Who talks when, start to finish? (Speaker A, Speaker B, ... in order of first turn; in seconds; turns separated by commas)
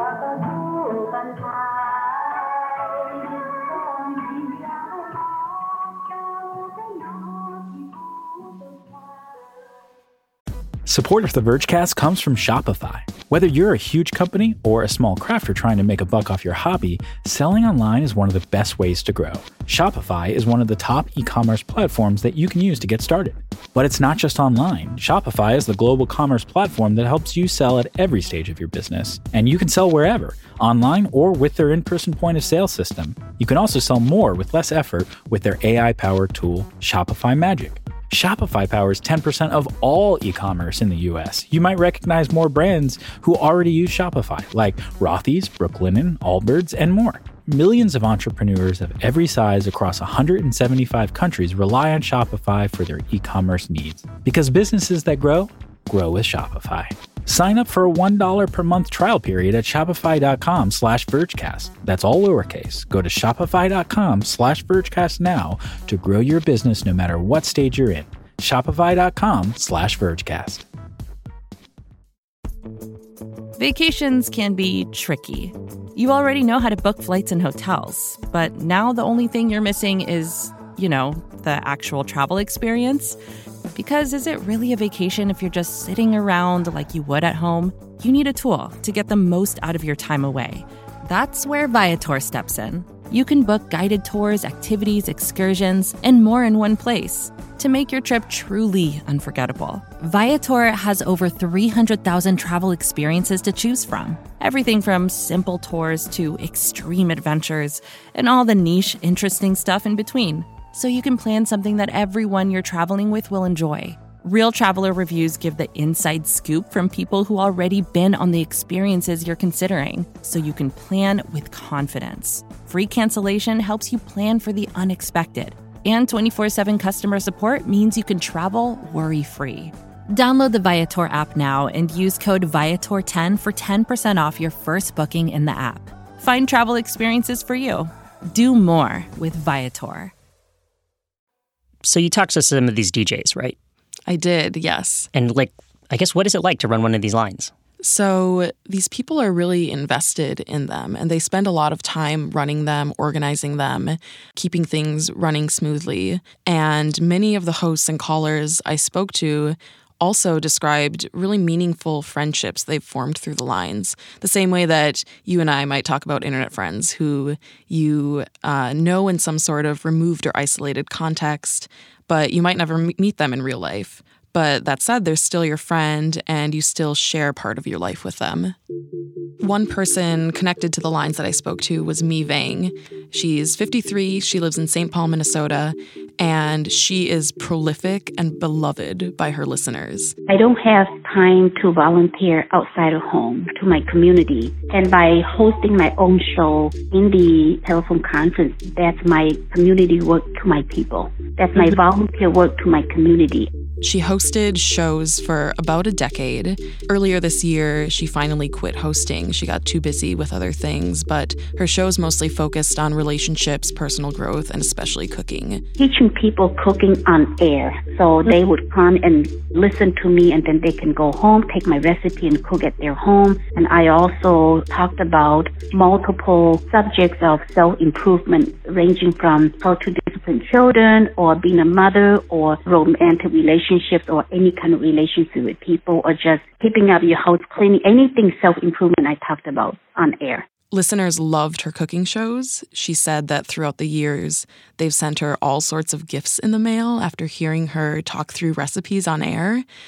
Speaker A: 10.8-70.6, Speaker B: 73.6-83.2, Speaker B: 83.7-140.1, Speaker C: 141.8-143.6, Speaker D: 144.1-145.1, Speaker C: 145.1-147.5, Speaker D: 147.8-178.6, Speaker D: 179.4-190.2, Speaker E: 190.3-203.5, Speaker D: 203.8-215.6, Speaker E: 215.8-240.5, Speaker D: 240.7-249.6